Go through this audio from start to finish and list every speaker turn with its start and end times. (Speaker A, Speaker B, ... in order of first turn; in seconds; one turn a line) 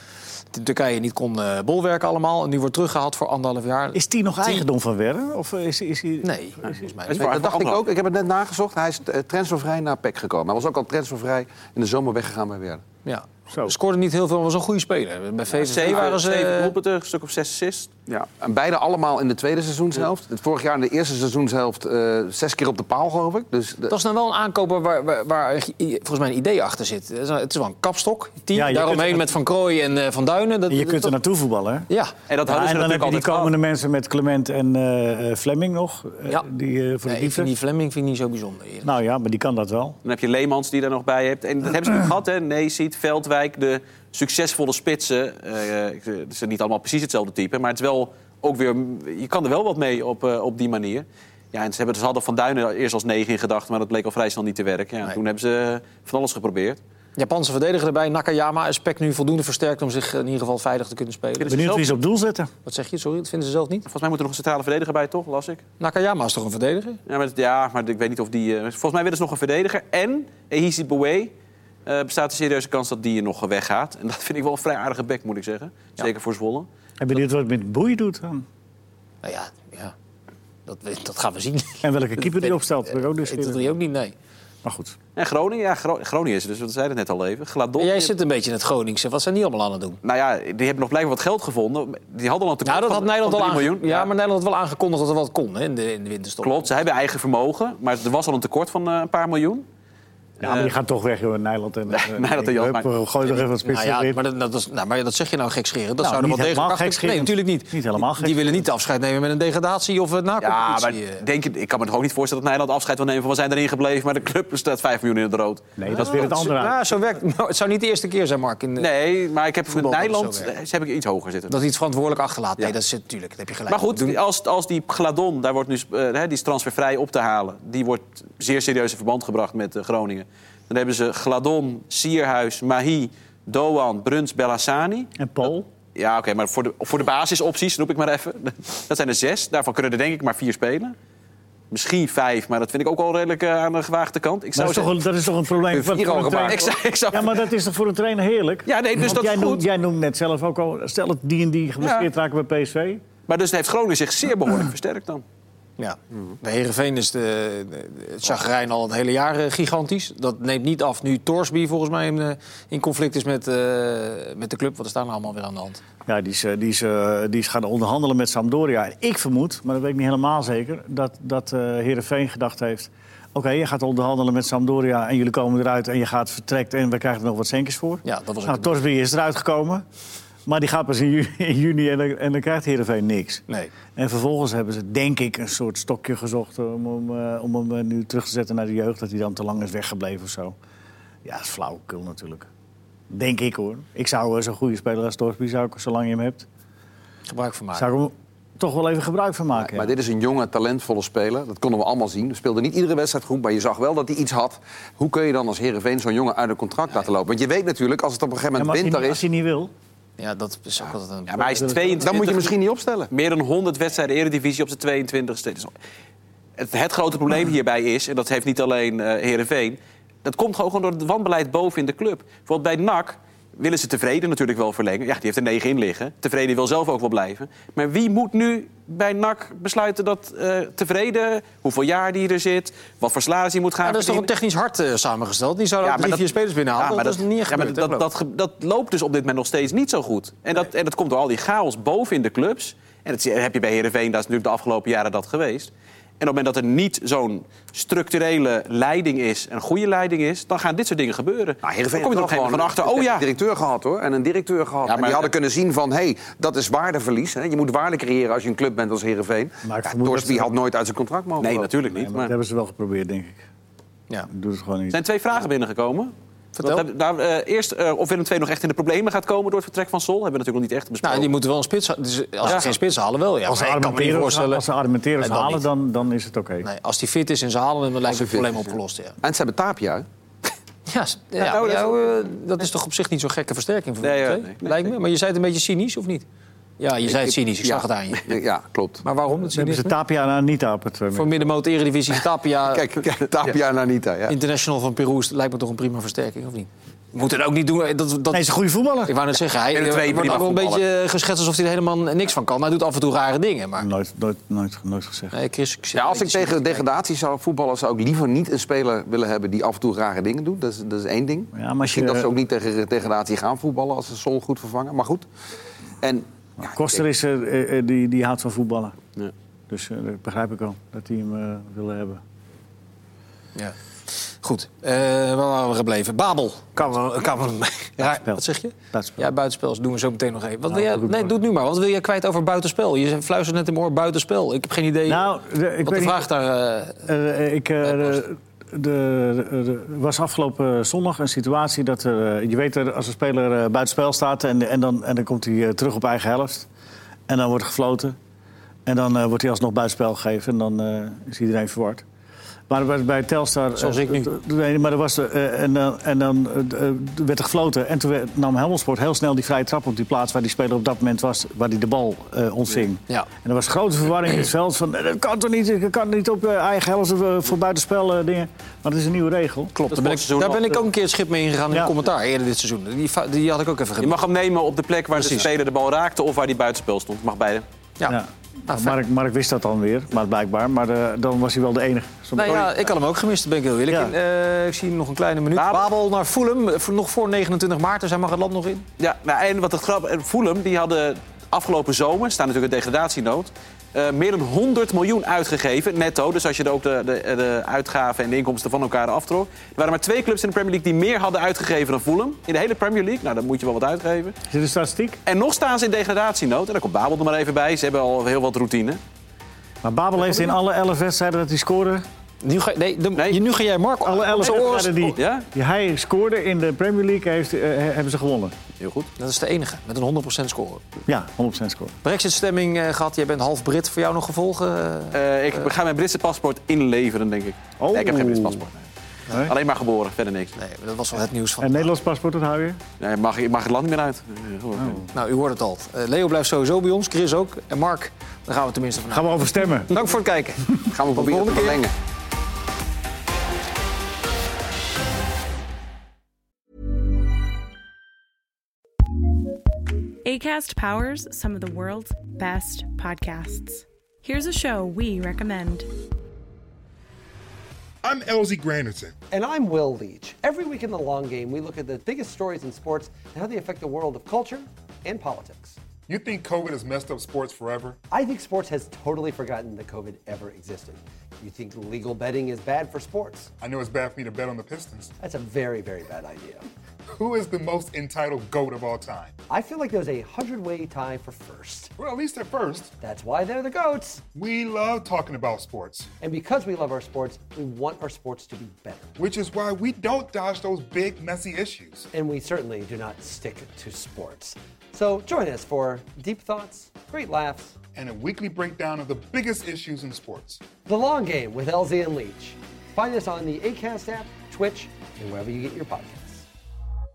Speaker A: 0.5-4.6
Speaker B: 3.9-6.9
Speaker A: 6.2-7.3
Speaker C: 7.1-7.8
Speaker D: 7.2-12.8
Speaker A: 13.0-16.7
Speaker B: 13.5-13.7
Speaker C: 15.5-17.9
Speaker D: 18.1-23.9
Speaker A: 23.9-31.2
Speaker B: 28.5-29.3
Speaker B: 30.7-31.9
Speaker A: 31.9-32.1
Speaker C: 32.3-33.5
Speaker B: 32.4-37.5
Speaker A: 37.0-38.9
Speaker B: 38.8-40.0
Speaker C: 40.0-56.8
Speaker A: 57.1-61.6
Speaker C: 61.4-62.0
Speaker B: 61.5-62.5
Speaker A: 62.6-63.9
Speaker C: 63.9-65.6
Speaker A: 65.8-67.0
Speaker C: 67.1-71.3
Speaker C: 71.8-76.7
Speaker B: 77.0-78.5
Speaker A: 79.2-79.9
Speaker A: 80.7-84.1
Speaker B: 81.8-83.7
Speaker B: 84.6-85.0
Speaker C: 85.2-88.1
Speaker A: 87.8-90.0
Speaker C: 90.0-94.1
Speaker A: 92.6-96.7
Speaker C: 96.4-99.6
Speaker C: 100.4-100.7
Speaker B: 100.4-104.2
Speaker C: 101.9-102.9
Speaker A: 103.3-111.2
Speaker B: 106.0-108.6
Speaker C: 110.4-116.5
Speaker B: 115.8-116.8
Speaker A: 115.9-118.9
Speaker C: 118.8-121.5
Speaker A: 119.7-120.5
Speaker A: 121.5-124.2
Speaker C: 123.7-135.1
Speaker B: 135.2-135.7
Speaker C: 135.9-140.9
Speaker C: 141.7-145.0
Speaker B: 144.5-153.0
Speaker D: 145.7-146.7
Speaker C: 146.5-147.4
Speaker C: 148.7-149.7
Speaker C: 151.8-152.1
Speaker C: 153.3-155.2
Speaker A: 155.8-165.8
Speaker B: 166.1-179.8
Speaker A: 178.0-178.7
Speaker B: 180.4-183.4
Speaker B: 183.9-190.6
Speaker B: 191.2-192.5
Speaker B: 193.1-196.4
Speaker A: 197.3-197.9
Speaker B: 197.7-199.9
Speaker D: 199.6-209.2
Speaker B: 208.6-209.7
Speaker A: 210.2-212.0
Speaker C: 211.3-212.6
Speaker D: 212.0-213.1
Speaker C: 213.1-215.7
Speaker C: 216.6-234.3
Speaker A: 233.8-238.1
Speaker C: 235.8-253.2
Speaker D: 251.6-261.7
Speaker C: 254.8-255.3
Speaker B: 259.6-260.5
Speaker C: 261.4-262.3
Speaker B: 261.9-263.4
Speaker B: 264.3-265.0
Speaker C: 264.9-271.3
Speaker A: 266.6-266.9
Speaker A: 271.0-274.6
Speaker C: 272.4-272.7
Speaker B: 273.4-276.7
Speaker A: 275.2-275.7
Speaker A: 276.6-279.1
Speaker D: 278.0-280.1
Speaker A: 280.9-286.2
Speaker C: 281.4-282.2
Speaker C: 284.0-284.9
Speaker A: 286.8-288.3
Speaker D: 287.1-289.0
Speaker A: 289.0-289.9
Speaker B: 289.3-291.4
Speaker A: 291.1-292.9
Speaker D: 292.7-294.4
Speaker A: 294.3-298.5
Speaker B: 298.3-299.1
Speaker A: 299.0-303.9
Speaker C: 299.7-300.8
Speaker B: 303.8-305.3
Speaker A: 305.3-306.8
Speaker D: 305.9-315.2
Speaker B: 311.5-312.3
Speaker D: 316.0-316.2
Speaker B: 316.6-319.0
Speaker B: 319.7-322.2
Speaker A: 323.5-335.3
Speaker B: 328.0-329.3
Speaker B: 330.7-331.3
Speaker B: 335.1-336.3
Speaker A: 335.8-337.1
Speaker B: 337.0-346.7
Speaker A: 337.8-338.2
Speaker B: 347.3-348.2
Speaker B: 348.9-352.0
Speaker B: 352.7-369.7
Speaker A: 353.8-354.3
Speaker A: 369.7-374.2
Speaker C: 369.9-370.8
Speaker C: 374.0-377.6
Speaker A: 375.2-375.5
Speaker A: 378.0-379.0
Speaker B: 378.1-382.6
Speaker A: 382.3-388.9
Speaker C: 382.4-382.8
Speaker B: 383.9-384.1
Speaker C: 385.5-385.9
Speaker C: 389.0-404.4
Speaker B: 404.5-405.2
Speaker C: 405.2-409.0
Speaker B: 409.8-412.0
Speaker A: 412.4-415.2
Speaker B: 414.0-418.5
Speaker C: 415.1-415.4
Speaker C: 418.8-419.1
Speaker A: 419.2-420.8
Speaker B: 421.1-421.9
Speaker A: 422.0-425.7
Speaker C: 425.1-428.8
Speaker B: 427.8-428.6
Speaker C: 429.4-430.5
Speaker A: 430.6-431.9
Speaker B: 431.6-432.8
Speaker C: 433.0-435.0
Speaker B: 434.8-435.1
Speaker A: 435.1-441.8
Speaker B: 439.1-440.0
Speaker D: 440.9-441.9
Speaker E: 450.2-455.9
Speaker F: 458.0-459.1
Speaker G: 459.3-465.8
Speaker F: 466.1-468.0
Speaker G: 468.1-473.5
Speaker F: 473.6-475.1
Speaker G: 475.2-476.6
Speaker F: 477.1-479.3
Speaker G: 479.5-481.9
Speaker F: 482.0-482.9
Speaker G: 483.0-484.2
Speaker F: 484.3-486.1
Speaker G: 486.2-489.1
Speaker F: 489.2-492.1
Speaker G: 492.1-497.7
Speaker F: 497.9-500.6
Speaker G: 500.8-506.4